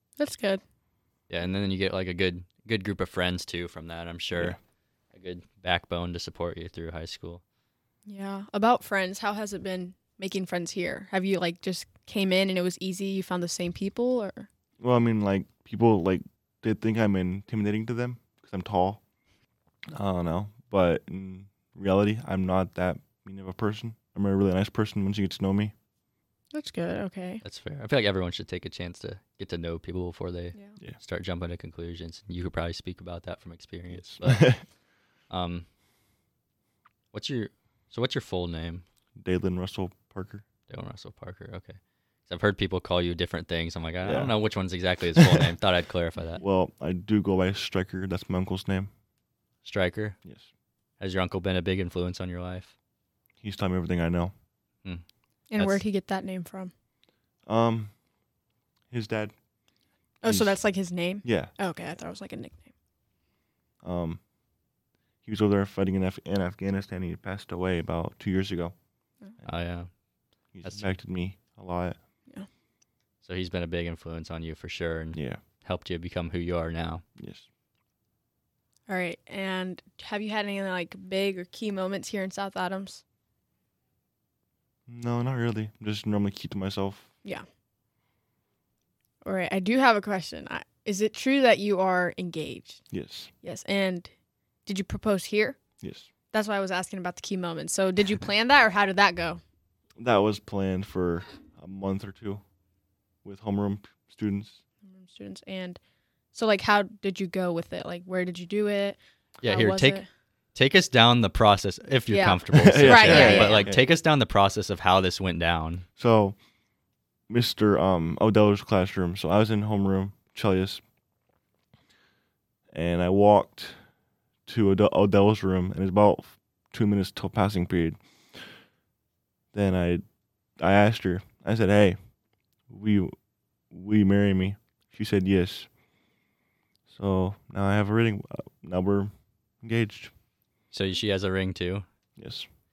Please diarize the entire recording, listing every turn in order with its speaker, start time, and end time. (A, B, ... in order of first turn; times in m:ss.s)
0:00.2-0:00.6 A
0:01.3-0:04.6 B
0:05.1-0:07.4 B
0:08.0-0:14.5 A
0:14.8-0:19.0 C
0:20.0-0:25.7 C
0:26.5-0:27.4 A
0:27.4-0:34.6 B
0:33.9-0:34.6 C
0:35.3-0:35.6 B
0:37.1-0:38.8 B
0:39.2-0:40.4 C
0:40.7-0:46.4 B
0:44.0-0:44.4 C
0:45.2-0:45.5 C
0:46.4-0:48.9 C
0:49.6-0:50.2 B
0:51.0-0:52.7 B
0:53.4-0:54.3 C
0:55.5-0:56.7 A
0:55.6-0:55.8 B
0:57.5-0:57.9 C
0:58.9-0:59.3 C
1:00.2-1:02.7 A
1:00.2-1:00.6 C
1:01.2-1:01.5 C
1:03.8-1:04.2 C
1:05.2-1:08.7 C
1:09.4-1:09.9 B
1:10.5-1:12.0 C
1:13.2-1:17.0 B
1:15.1-1:15.4 C
1:17.2-1:17.4 C
1:18.9-1:23.0 A
1:24.9-1:27.1 C
1:29.2-1:32.8 A
1:32.9-1:33.3 C
1:33.4-1:34.1 A
1:34.6-1:35.6 A
1:35.8-1:36.1 C
1:36.3-1:39.4 A
1:40.0-1:42.4 C
1:43.2-1:44.6 C
1:44.8-1:45.8 A
1:46.3-1:50.1 A
1:49.4-1:50.0 B
1:50.5-1:55.8 B
1:52.1-1:53.7 A
1:52.5-1:53.8 C
1:56.0-1:56.4 C
1:57.3-2:00.8 C
2:02.7-2:03.8 C
2:04.4-2:08.0 C
2:09.5-2:10.0 C
2:10.6-2:12.0 C
2:12.7-2:13.1 C
2:13.7-2:15.7 C
2:16.9-2:20.1 C
2:20.7-2:21.8 B
2:22.2-2:22.5 C